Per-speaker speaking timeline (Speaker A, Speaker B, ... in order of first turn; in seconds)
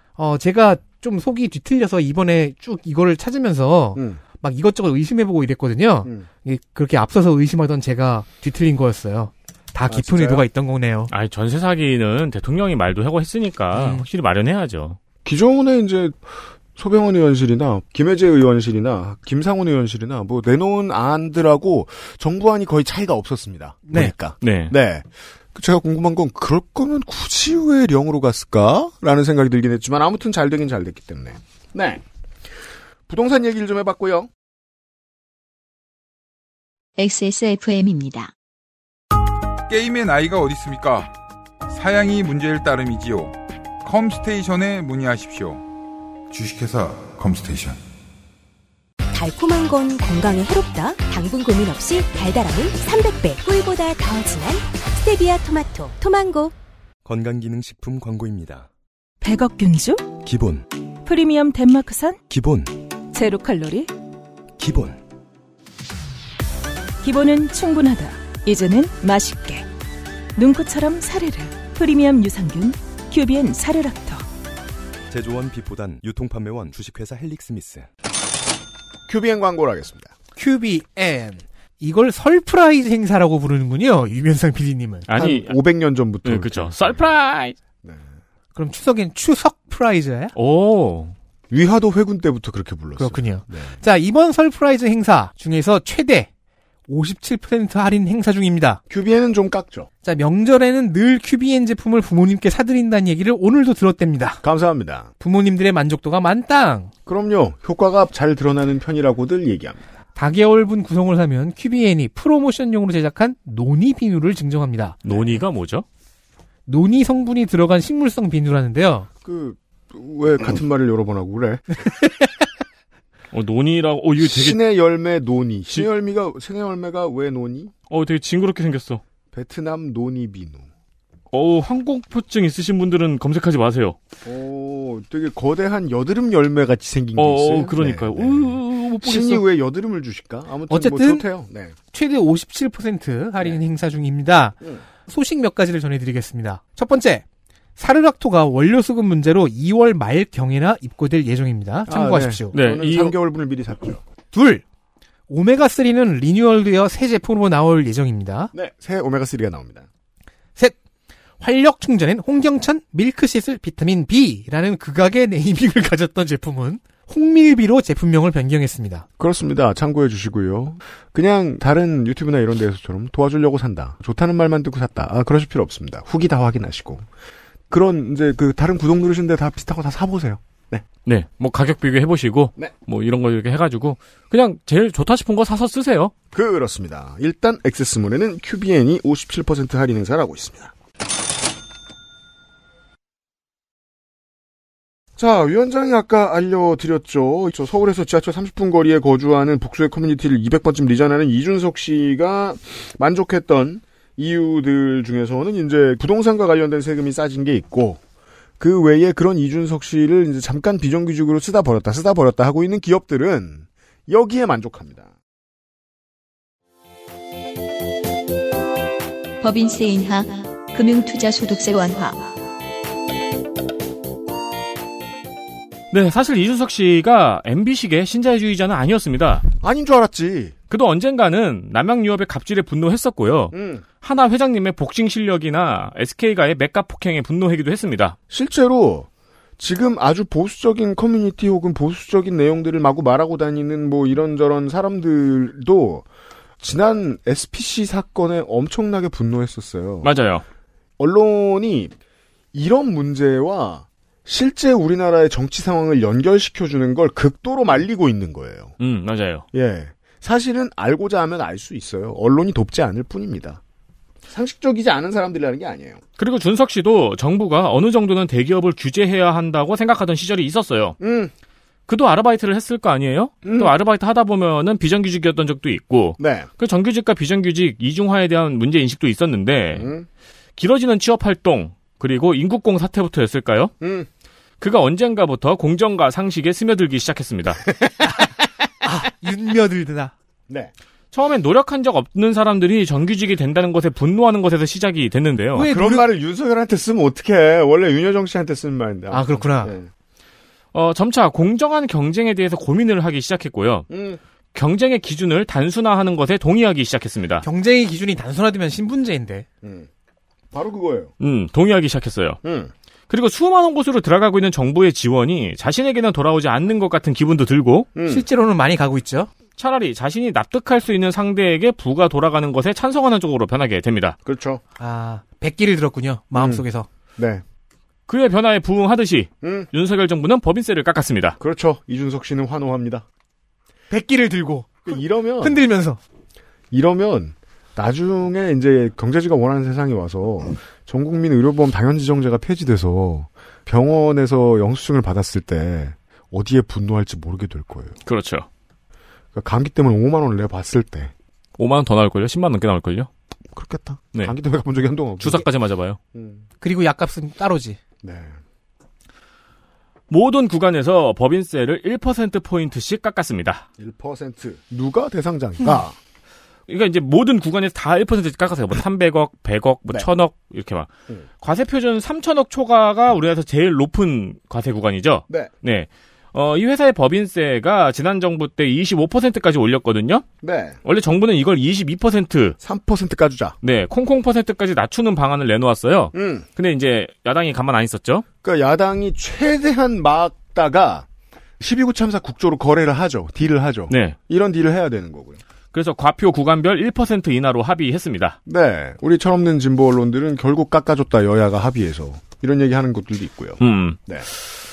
Speaker A: 0.2-11.1, 13.8-14.0, 80.3-85.0, 88.5-90.3, 93.0-96.3, 96.9-98.8, 100.0-104.4, 105.2-106.9, 110.2-115.0, 116.7-119.1, 140.7-141.2, 141.9-147.2, 147.8-152.5, 154.3-154.6, 155.3-158.5, 161.4-169.1, 288.8-290.1, 295.5-296.1, 299.1-299.7, 307.4-309.4, 318.1-319.3, 324.8-326.9, 333.9-336.0, 356.6-357.8
Speaker B: 3.9-4.2, 9.9-10.4, 15.2-32.0, 33.1-34.3, 79.1-80.1, 85.1-87.0, 91.5-93.8, 98.9-99.9, 104.4-105.1, 107.0-109.8, 115.1-115.3, 119.2-121.7, 124.2-127.7, 129.3-130.7, 134.2-141.7, 151.9-154.0, 158.5-159.9, 169.2-177.1, 177.7-180.8, 186.3-190.7, 195.2-208.0, 208.6-215.1, 229.6-230.5, 233.5-233.8, 238.3-239.1, 239.6-246.1, 246.6-250.1, 251.0-251.9, 252.5-258.7, 259.5-263.6, 264.3-266.0, 271.0-271.3, 273.4-273.7, 276.2-276.5, 279.7-280.1, 283.8-284.1, 287.7-288.2, 295.6-299.9, 303.9-304.2, 309.6-309.9, 310.5-311.1, 312.4-312.7, 317.9-318.2, 324.2-324.6, 326.3-326.6, 327.1-327.4, 329.4-329.7, 331.4-333.0, 334.9-335.6, 336.7-348.0, 349.3-351.1, 353.5-355.4, 356.1-356.4, 358.0-358.4, 363.8-365.9, 380.4-380.8, 382.6-383.6, 386.1-386.5, 388.4-391.1, 391.6-395.4, 398.4-404.2
Speaker C: 11.1-15.0, 24.4-24.7, 85.1-85.5, 86.2-87.5, 90.3-91.1, 115.0-115.8, 123.3-124.6, 127.9-129.0, 131.3-134.0, 137.2-139.4, 152.5-153.1, 181.1-186.1, 225.9-229.4, 230.7-238.2, 250.0-250.4, 258.8-259.4, 266.2-271.0, 271.9-279.9, 280.6-283.7, 284.6-287.6, 291.1-295.7, 300.7-303.9, 304.5-307.4, 311.2-312.4, 313.1-317.9, 319.6-324.2, 328.1-331.4, 348.1-348.5, 351.6-353.1, 355.2-356.0, 360.1-363.6, 366.7-370.9, 371.4-380.2, 380.8-382.6, 383.6-388.2, 393.9-394.2, 395.7-398.4, 403.6-404.0
Speaker D: 37.0-38.3, 219.4-222.3
Speaker E: 39.7-41.1, 41.7-45.6, 46.3-47.8
Speaker F: 49.1-56.5
Speaker G: 57.0-58.7, 60.2-60.6, 62.3-62.8, 64.6-65.0, 75.1-77.9
Speaker H: 59.2-60.2, 61.0-62.2, 63.1-63.9, 67.0-69.7, 70.3-74.3